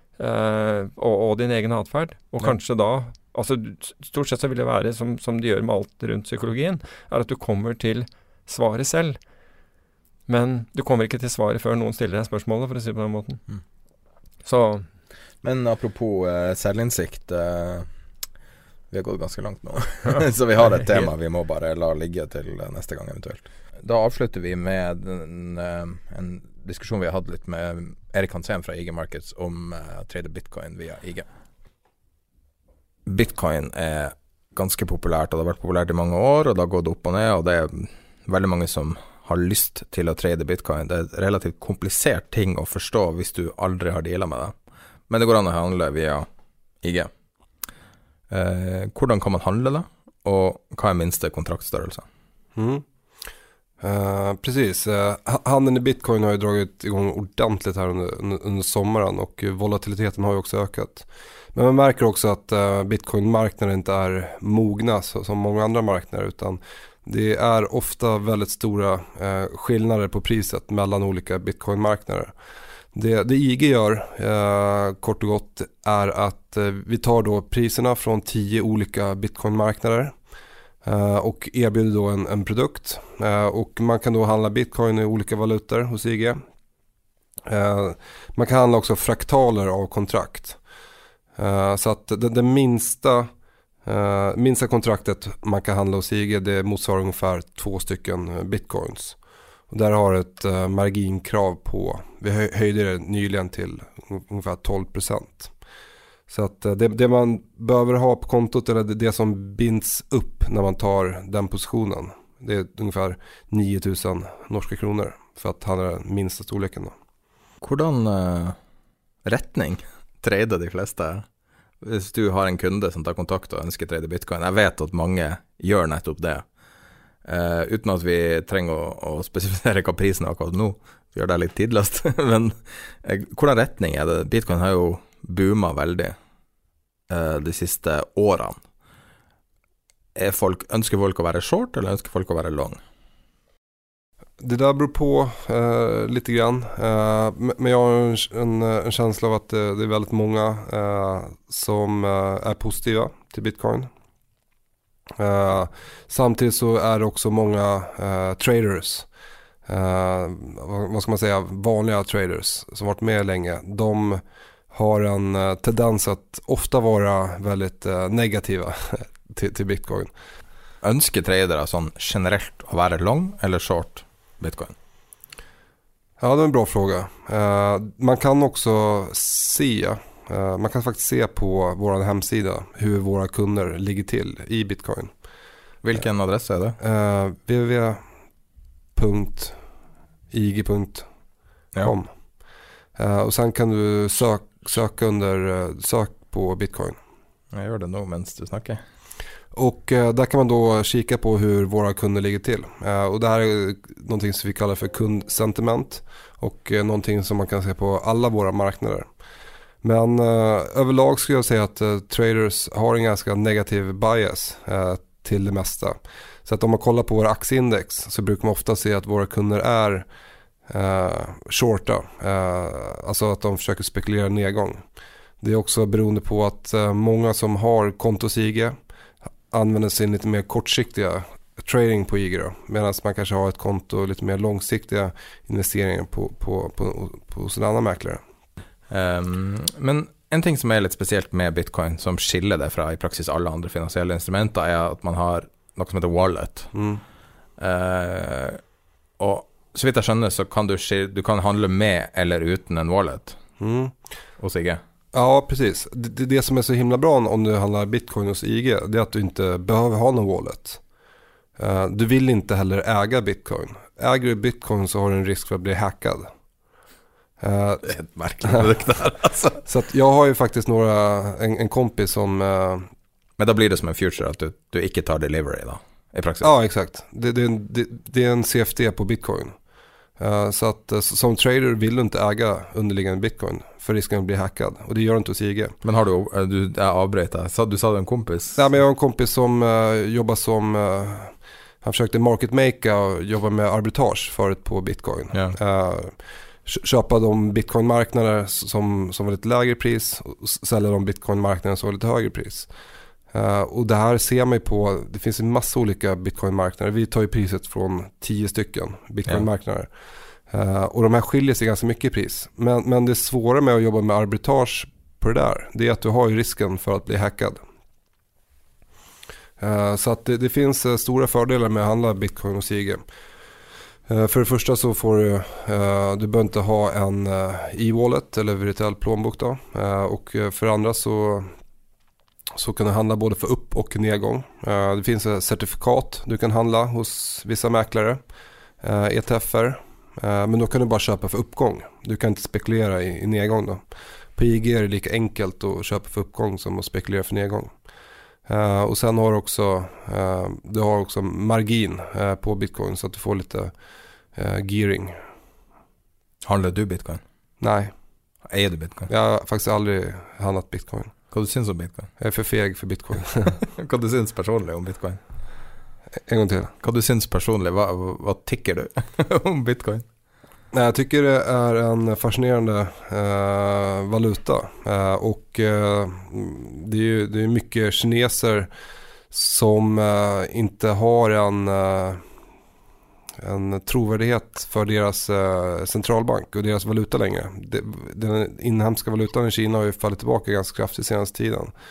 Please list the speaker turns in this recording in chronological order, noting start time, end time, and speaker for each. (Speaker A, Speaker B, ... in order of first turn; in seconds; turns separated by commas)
Speaker A: 0.2-9.2, Speaker A: 10.3-13.4, Speaker A: 14.4-14.8, Speaker B: 15.4-17.9, Speaker B: 18.9-31.2, Speaker B: 33.0-44.5, Speaker B: 45.1-46.3, Speaker B: 46.8-47.1, Speaker B: 48.3-52.0, Speaker C: 52.5-52.8, Speaker C: 53.8-72.3, Speaker C: 72.9-80.2, Speaker C: 80.8-86.4, Speaker C: 87.5-90.6, Speaker C: 91.4-93.3, Speaker C: 93.8-99.2, Speaker C: 99.7-105.5, Speaker C: 106.3-117.0, Speaker B: 117.6-118.5, Speaker B: 119.2-121.2, Speaker B: 121.8-126.4, Speaker B: 127.2-136.2, Speaker B: 137.1-138.6, Speaker B: 140.2-142.8, Speaker C: 144.4-153.9, Speaker C: 155.2-159.1, Speaker C: 159.7-170.1, Speaker B: 170.8-174.7, Speaker C: 176.2-185.1, Speaker B: 185.8-186.8, Speaker C: 186.8-188.0, Speaker C: 188.9-189.6, Speaker C: 190.3-191.1, Speaker C: 191.8-192.1, Speaker C: 192.9-197.0, Speaker B: 197.5-198.8, Speaker C: 199.5-209.1, Speaker C: 209.8-220.1, Speaker C: 220.7-224.8, Speaker C: 225.4-228.8, Speaker C: 229.5-238.2, Speaker B: 238.9-246.7, Speaker C: 246.7-247.0, Speaker B: 247.6-248.6, Speaker B: 249.2-253.4, Speaker C: 253.6-254.0, Speaker B: 254.4-254.8, Speaker C: 255.1-260.8, Speaker C: 261.6-266.3, Speaker C: 267.4-267.9, Speaker B: 267.8-269.6, Speaker C: 269.6-272.9, Speaker B: 273.4-276.5, Speaker C: 276.4-279.5, Speaker C: 280.2-285.7, Speaker B: 285.8-288.6, Speaker C: 288.5-302.7, Speaker C: 303.3-309.9, Speaker C: 310.5-317.6, Speaker C: 319.6-323.0, Speaker C: 324.1-331.5, Speaker C: 332.6-338.2, Speaker C: 338.8-347.7, Speaker C: 348.4-353.7, Speaker C: 354.3-355.2, Speaker B: 356.4-357.2, Speaker C: 357.6-357.9, Speaker B: 358.5-359.1, Speaker C: 359.1-361.1, Speaker B: 361.3-362.1, Speaker C: 362.2-363.6, Speaker B: 363.6-365.2, Speaker C: 366.3-366.7, Speaker B: 366.8-370.0, Speaker C: 370.7-378.7, Speaker C: 379.3-382.2, Speaker C: 383.4-391.7